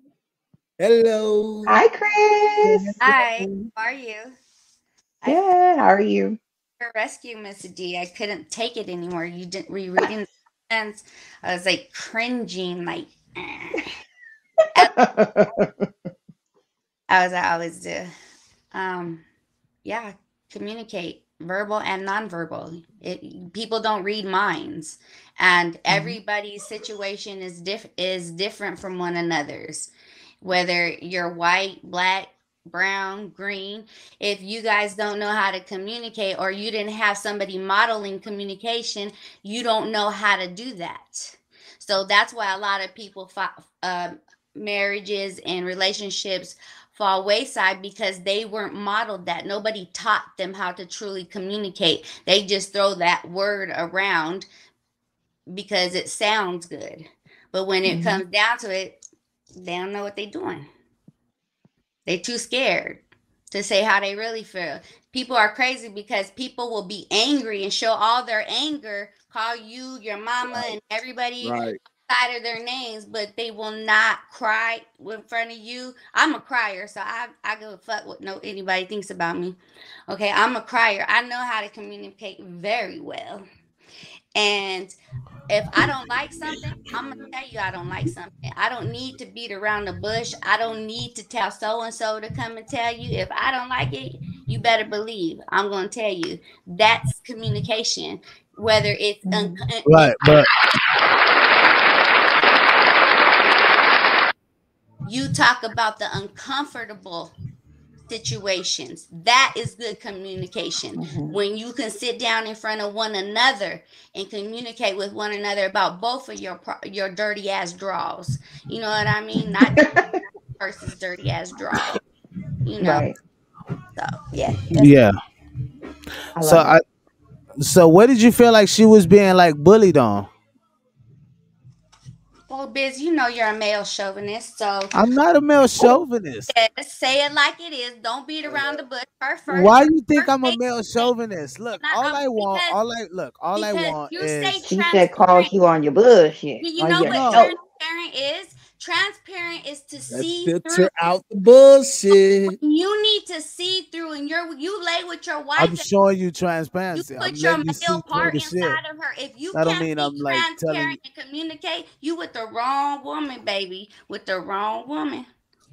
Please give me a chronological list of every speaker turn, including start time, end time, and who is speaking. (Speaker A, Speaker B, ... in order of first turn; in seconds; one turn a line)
Speaker A: 0.8-1.8
Speaker B: 1.7-3.2
Speaker C: 3.0-4.4
Speaker C: 5.2-5.5
Speaker B: 5.3-6.4
Speaker C: 6.8-13.9
Speaker B: 14.8-15.9
Speaker C: 17.1-18.1
Speaker C: 18.7-19.2
Speaker C: 19.9-29.9
Speaker B: 25.9-26.2
Speaker C: 30.4-54.5
Speaker C: 55.5-59.0
Speaker B: 57.8-58.2
Speaker C: 59.6-60.7
Speaker C: 62.1-79.6
Speaker A: 71.4-71.8
Speaker C: 80.1-83.4
Speaker C: 84.3-84.9
Speaker C: 85.5-100.5
Speaker B: 99.2-99.6
Speaker D: 99.8-100.5
Speaker C: 105.0-107.3
Speaker C: 108.1-119.9
Speaker B: 111.0-111.4
Speaker B: 119.7-120.0
Speaker C: 120.6-122.0
Speaker C: 122.6-123.1
Speaker B: 122.8-123.1
Speaker C: 124.0-125.0
Speaker D: 124.7-125.1
Speaker B: 126.3-126.7
Speaker D: 126.4-126.8
Speaker D: 127.6-130.3
Speaker C: 132.5-134.9
Speaker D: 134.9-136.5
Speaker C: 136.5-141.1
Speaker D: 139.5-144.7
Speaker C: 141.8-142.8
Speaker C: 143.5-145.5
Speaker B: 144.7-147.5
Speaker C: 146.6-150.9
Speaker D: 147.1-147.5
Speaker A: 150.1-152.5
Speaker C: 152.1-155.8
Speaker D: 155.6-158.8
Speaker C: 156.9-165.2
Speaker D: 159.5-161.0